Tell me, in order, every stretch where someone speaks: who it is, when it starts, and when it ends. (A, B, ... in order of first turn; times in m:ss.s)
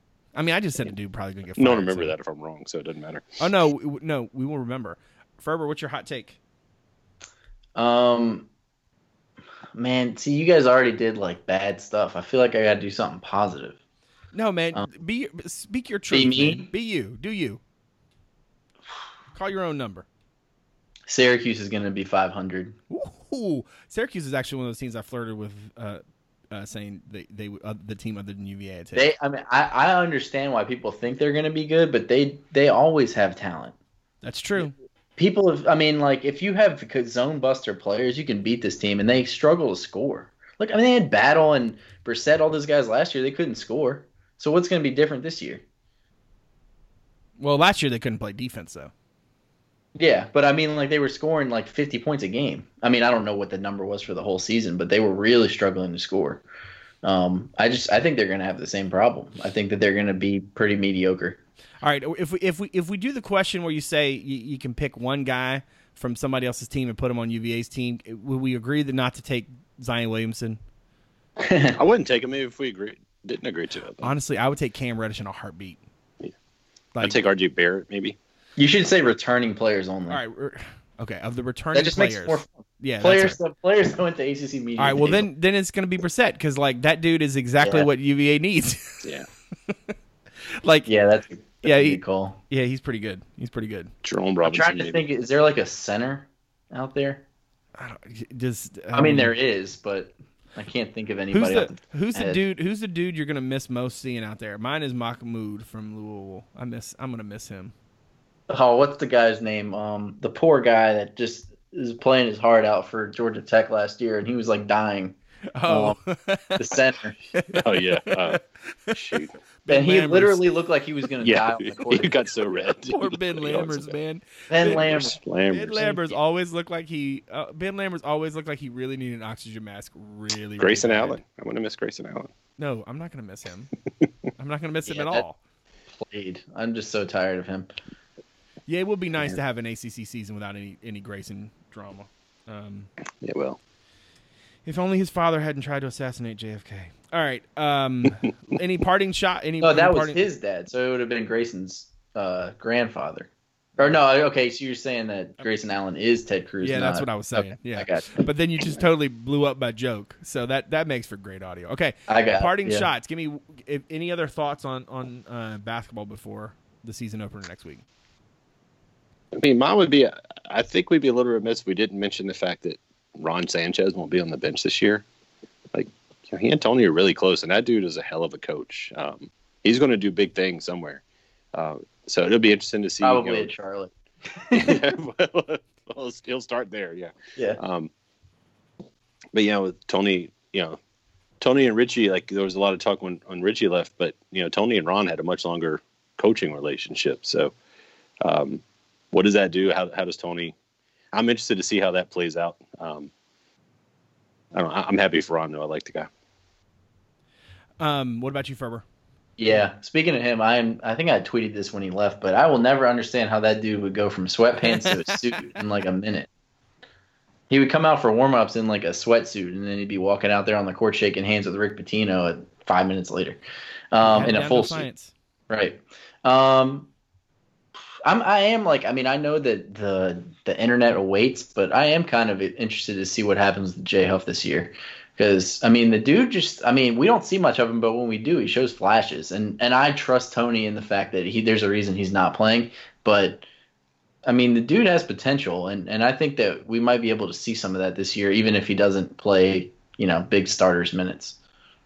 0:00.3-0:02.1 A
0:01.6-0:03.3 B
0:03.4-0:06.4 A
0:07.7-0:08.5 C
0:09.7-0:13.8 C
0:14.3-0:17.6 A
0:16.1-0:16.7 C
0:19.3-0:20.0 A
0:21.1-0:22.8 C
0:22.9-0:29.1 A
0:28.9-0:33.8 C
0:34.2-0:34.7 A
0:35.2-0:45.6 C
0:47.4-0:48.9 A
0:50.0-0:56.4 C
0:57.0-1:01.4 C
1:01.8-1:10.6 A
1:11.4-1:11.8 C
1:11.8-1:14.1 B
1:14.0-1:15.8 A
1:17.0-1:18.2 B
1:18.6-1:20.2 C
1:20.1-1:23.4 A
1:21.7-1:25.3 C
1:24.8-1:29.1 A
1:27.6-1:27.9 C
1:29.7-1:29.9 A
1:30.6-1:30.9 A
1:30.8-1:32.4 C
1:31.6-1:33.9 A
1:34.0-1:35.0 B
1:34.4-1:37.2 C
1:37.8-1:39.3 A
1:38.9-1:42.4 C
1:41.3-1:47.7 A
1:48.5-1:56.0 C
1:55.5-1:56.8 A
1:56.6-1:57.2 C
1:57.3-1:58.4 A
1:57.5-1:58.4 B
1:58.9-1:59.3 B
1:59.6-2:00.4 A
1:59.7-2:02.2 C
2:01.2-2:03.9 B
2:02.8-2:04.9 A
2:04.5-2:05.2 C
2:04.6-2:06.0 B
2:05.5-2:11.2 A
2:10.6-2:12.3 B
2:12.6-2:13.7 A
2:14.4-2:15.4 A
2:14.9-2:15.2 C
2:16.0-2:17.7 C
2:18.7-2:22.9 A
2:23.2-2:23.6 B
2:24.6-2:30.2 A
2:29.6-2:38.3 C
2:36.6-2:47.8 A
2:42.1-2:42.9 C
2:49.3-2:55.0 B
2:55.7-3:01.0 B
3:01.5-3:03.5 B
3:03.0-3:05.0 C
3:04.5-3:07.9 B
3:09.3-3:10.8 B
3:11.4-3:17.5 B
3:18.2-3:20.5 B
3:21.1-3:23.1 B
3:24.5-3:26.1 B
3:27.8-3:28.8 A
3:29.4-3:36.3 C
3:34.6-3:35.3 A
3:37.5-3:43.4 C
3:43.9-3:44.8 C
3:44.0-3:45.1 A
3:45.5-3:46.9 C
3:48.0-4:03.4 C
4:04.2-4:11.4 C